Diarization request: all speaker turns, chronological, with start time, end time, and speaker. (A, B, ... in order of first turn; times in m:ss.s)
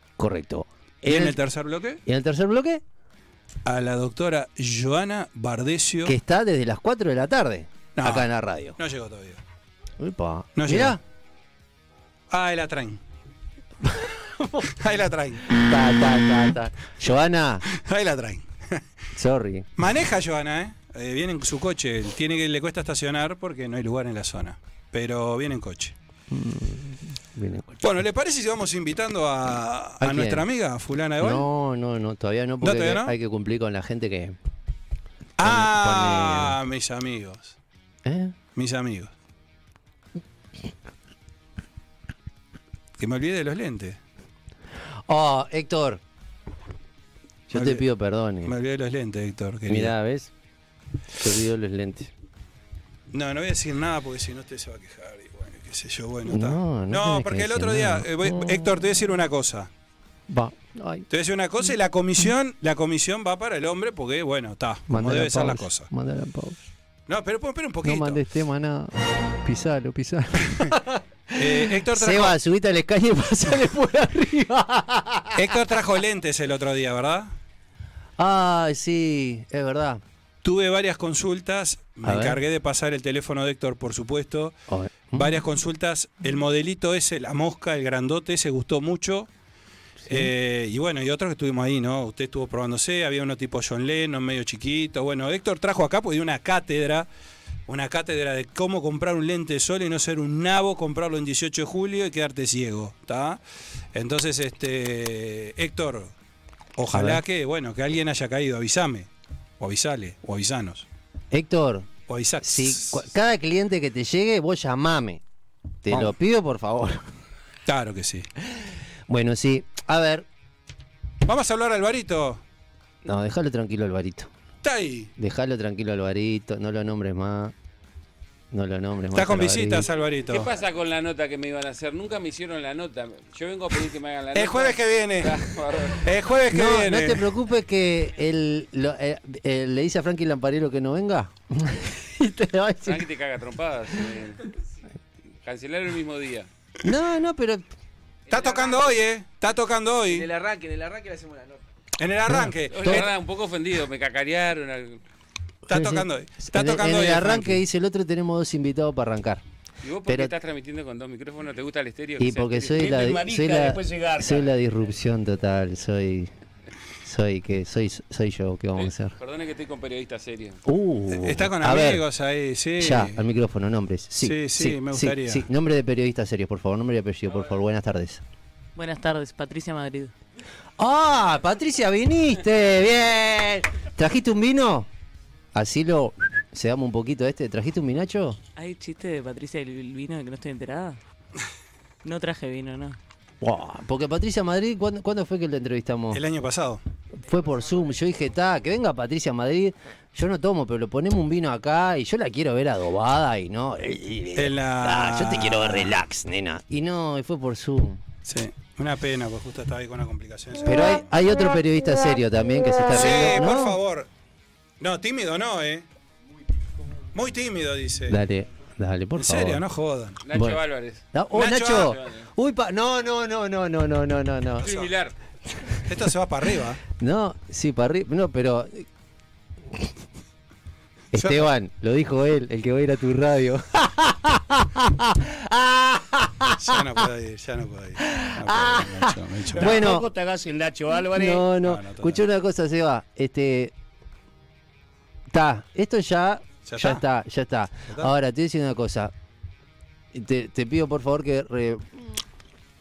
0:00.2-0:01.4 A
0:01.0-0:02.0 B
0:02.0-0:02.8 A
0:03.6-0:06.2 B
0:06.0-0:08.8 A
0:08.0-0:09.4 B
0:10.0-0:11.0 A
0:10.6-0:11.0 B
0:12.3-0:13.0 B
0:14.0-0:14.7 A
0:14.8-0:15.5 B
0:15.5-0:17.6 A
0:17.7-0:18.8 B
0:19.2-0:19.7 A
0:19.8-0:26.0 B
0:26.3-0:27.8 A
0:27.8-0:31.5 B
0:30.0-0:30.4 A
0:31.2-0:34.4 A
0:32.6-0:33.1 B
0:35.4-0:37.6 B
0:35.4-0:36.6 A
0:38.0-0:38.4 A
0:38.6-0:39.1 B
0:43.0-0:44.0 B
0:45.1-0:46.0 A
0:47.5-0:47.8 B
0:47.5-0:48.5 A
0:48.4-0:50.0 B
0:49.7-0:50.3 A
0:51.2-0:52.1 A
0:53.1-0:59.7 B
0:56.2-0:58.8 A
1:00.3-1:01.1 A
1:01.1-1:05.9 B
1:04.9-1:06.7 A
1:07.1-1:08.2 B
1:07.8-1:15.4 A
1:11.3-1:12.4 B
1:15.4-1:17.3 B
1:18.2-1:20.0 A
1:20.4-1:24.6 B
1:22.0-1:22.4 A
1:24.7-1:25.4 A
1:25.1-1:29.3 B
1:30.0-1:30.3 A
1:30.1-1:37.1 B
1:37.7-1:43.4 B
1:43.9-1:46.1 B
1:46.8-1:49.1 B
1:46.9-1:47.2 A
1:49.6-1:50.9 B
1:51.3-1:51.9 A
1:52.1-1:53.0 B
1:52.4-1:55.2 A
1:55.8-1:57.0 A
1:57.7-1:58.3 B
1:59.1-2:00.3 A
2:01.2-2:02.4 B
2:03.0-2:04.3 A
2:04.6-2:05.1 B
2:05.2-2:07.5 A
2:08.5-2:09.9 A
2:09.1-2:10.5 B
2:10.3-2:16.0 C
2:14.3-2:15.4 B
2:16.0-2:17.3 B
2:16.5-2:23.1 A
2:22.8-2:24.4 C
2:25.4-2:26.5 C
2:26.8-2:27.6 A
2:28.3-2:28.8 D
2:28.3-2:30.3 B
2:30.1-2:31.6 D
2:32.0-2:33.1 B
2:32.3-2:33.1 A
2:32.7-2:35.0 C
2:35.7-2:37.6 B
2:35.7-2:39.4 A
2:39.8-2:42.9 C
2:40.1-2:40.3 A
2:42.2-2:46.3 A
2:42.8-2:44.5 E
2:47.0-2:49.2 A
2:48.8-2:50.6 C
2:50.6-2:52.0 A
2:51.1-2:53.2 B
2:52.8-2:58.2 A
2:54.2-2:55.5 B
2:58.8-3:00.1 F
3:00.8-3:04.9 A
3:05.5-3:08.4 A
3:08.6-3:11.0 F
3:12.0-3:13.0 F
3:13.4-3:16.2 A
3:16.1-3:16.8 B
3:17.2-3:28.0 A
3:24.4-3:26.0 B
3:28.3-3:31.0 B
3:30.6-3:33.8 A
3:32.9-3:34.1 B
3:34.8-3:35.8 B
3:37.1-3:38.2 B
3:38.1-3:39.6 A
3:39.2-3:40.2 B
3:40.2-3:41.0 C
3:40.3-3:40.6 A
3:41.1-3:44.7 A
3:41.3-3:42.0 B
3:41.8-3:42.3 C
3:44.6-3:44.9 B
3:44.6-3:45.1 C
3:45.8-3:46.8 B
3:47.0-3:48.8 A
3:51.1-3:56.8 A
3:51.1-3:51.5 B
3:56.5-3:59.9 B
3:58.1-4:00.1 A
3:59.5-4:01.5 E
4:01.1-4:03.7 A
4:01.6-4:02.2 B
4:05.3-4:09.1 A
4:06.7-4:07.0 B
4:10.1-4:12.0 A